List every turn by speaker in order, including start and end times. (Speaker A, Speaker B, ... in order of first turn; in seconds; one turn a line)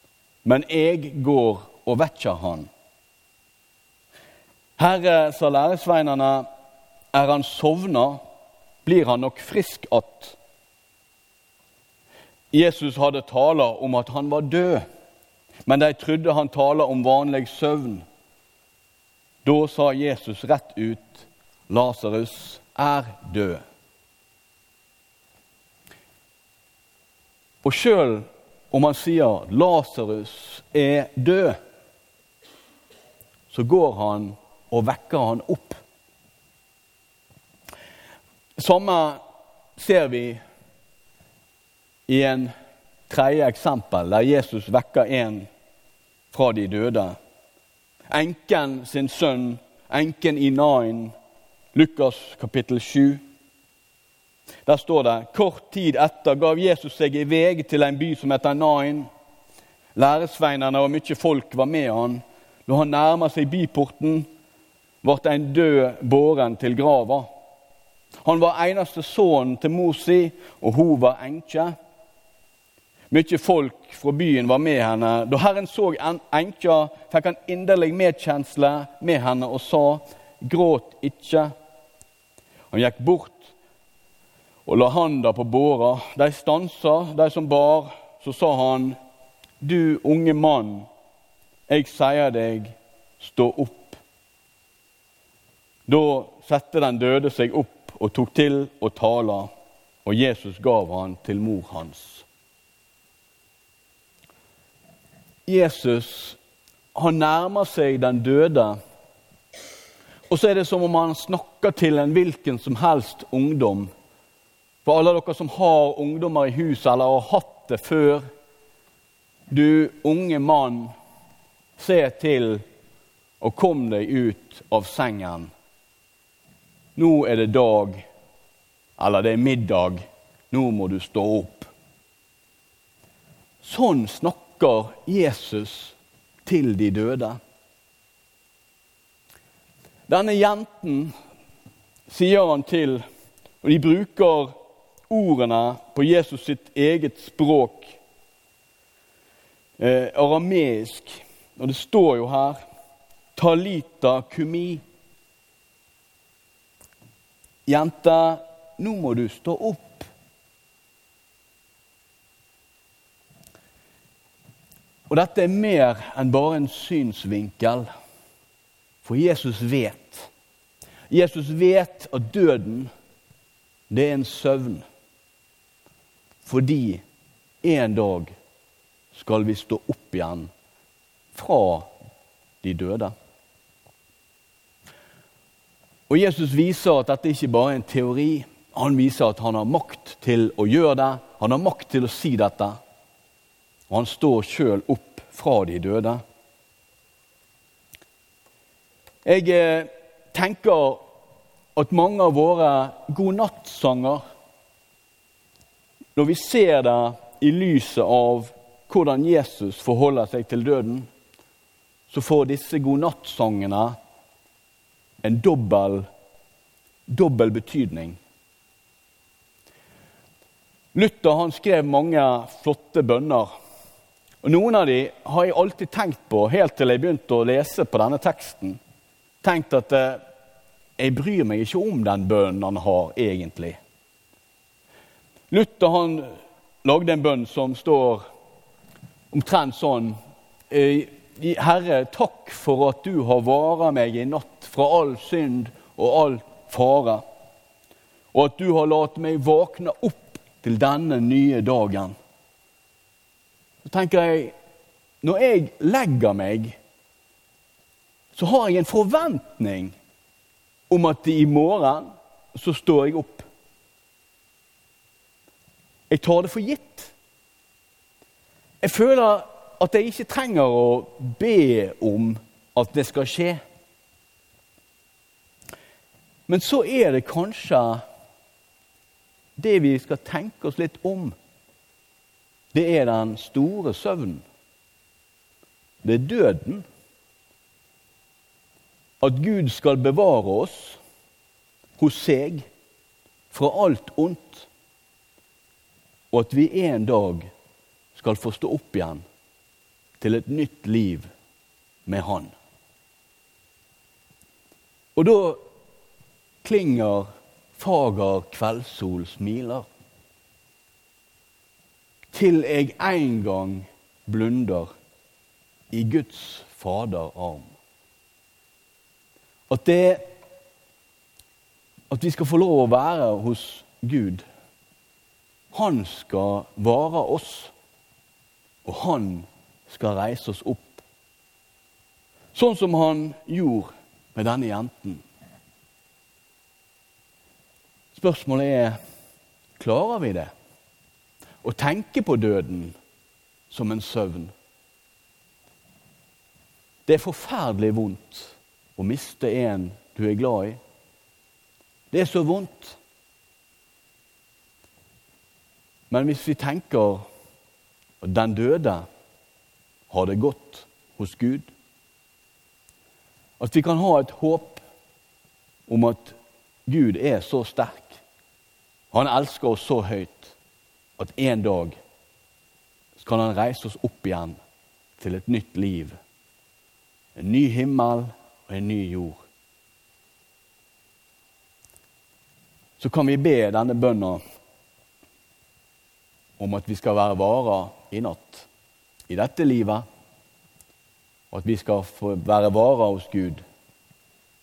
Speaker A: 0.4-2.7
Speaker A: 4.8-6.5
Speaker A: 7.1-8.2
Speaker A: 8.8-10.4
Speaker A: 12.5-14.8
Speaker A: 15.7-18.0
Speaker A: 19.4-23.6
Speaker A: 27.6-31.6
Speaker A: 33.5-35.8
Speaker A: 38.6-39.2
Speaker A: 39.8-40.4
Speaker A: 42.1-42.5
Speaker A: 43.1-45.5
Speaker A: 46.3-47.1
Speaker A: 48.1-51.1
Speaker A: 51.7-53.2
Speaker A: 54.6-59.1
Speaker A: 60.0-64.3
Speaker A: 65.0-67.3
Speaker A: 68.2-71.7
Speaker A: 73.1-81.5
Speaker A: 82.7-83.5
Speaker A: 84.7-89.0
Speaker A: 89.6-90.9
Speaker A: 91.7-94.0
Speaker A: 95.9-99.5
Speaker A: 100.0-102.2
Speaker A: 105.5-106.4
Speaker A: 106.9-108.8
Speaker A: 110.3-113.9
Speaker A: 114.8-118.2
Speaker A: 119.5-120.9
Speaker A: 121.8-122.6
Speaker A: 123.4-125.5
Speaker A: 127.0-128.0
Speaker A: 129.0-131.7
Speaker A: 133.6-137.4
Speaker A: 140.1-141.1
Speaker A: 142.1-143.0
Speaker A: 143.6-144.5
Speaker A: 145.1-148.0
Speaker A: 149.8-152.6
Speaker A: 153.3-154.8
Speaker A: 157.7-160.1
Speaker A: 165.1-167.9
Speaker A: 169.0-170.3
Speaker A: 171.1-172.9
Speaker A: 173.9-174.8
Speaker A: 176.4-177.0
Speaker A: 177.6-178.3
Speaker A: 179.1-180.5
Speaker A: 181.3-181.9
Speaker A: 182.6-183.1
Speaker A: 186.1-192.8
Speaker A: 193.9-196.2
Speaker A: 199.2-201.0
Speaker A: 201.7-204.2
Speaker A: 206.2-211.1
Speaker A: 212.1-213.9
Speaker A: 215.2-216.1
Speaker A: 217.1-218.2
Speaker A: 220.9-223.5
Speaker A: 224.4-228.8
Speaker A: 229.4-230.2
Speaker A: 231.0-233.8
Speaker A: 235.5-236.3
Speaker A: 236.8-238.2
Speaker A: 239.3-240.2
Speaker A: 240.7-247.2
Speaker A: 248.3-252.1
Speaker A: 253.8-254.5
Speaker A: 255.2-256.8
Speaker A: 258.3-260.0
Speaker A: 260.9-263.4
Speaker A: 266.1-267.1
Speaker A: 268.8-273.6
Speaker A: 276.5-278.0
Speaker A: 279.6-281.3
Speaker A: 282.7-284.4
Speaker A: 286.0-286.9
Speaker A: 289.2-291.0
Speaker A: 292.0-292.7
Speaker A: 293.5-294.7
Speaker A: 296.3-297.5
Speaker A: 298.1-299.2
Speaker A: 300.2-301.3
Speaker A: 302.1-302.5
Speaker A: 305.1-305.6
Speaker A: 306.6-309.9
Speaker A: 312.3-314.9
Speaker A: 315.9-317.7
Speaker A: 319.7-320.3
Speaker A: 322.1-324.4
Speaker A: 325.7-327.7
Speaker A: 328.8-331.0
Speaker A: 332.5-335.2
Speaker A: 338.1-338.9
Speaker A: 339.8-340.5
Speaker A: 341.6-342.9
Speaker A: 343.7-344.5
Speaker A: 347.1-350.8
Speaker A: 352.1-353.0
Speaker A: 356.1-357.2
Speaker A: 358.2-359.1
Speaker A: 360.1-361.7
Speaker A: 363.6-364.8
Speaker A: 365.9-366.4
Speaker A: 366.9-368.2
Speaker A: 369.1-370.6
Speaker A: 371.2-372.0
Speaker A: 373.1-374.6
Speaker A: 375.2-376.2
Speaker A: 377.4-379.4
Speaker A: 383.0-384.4
Speaker A: 386.6-388.7
Speaker A: 389.3-390.0
Speaker A: 391.5-393.6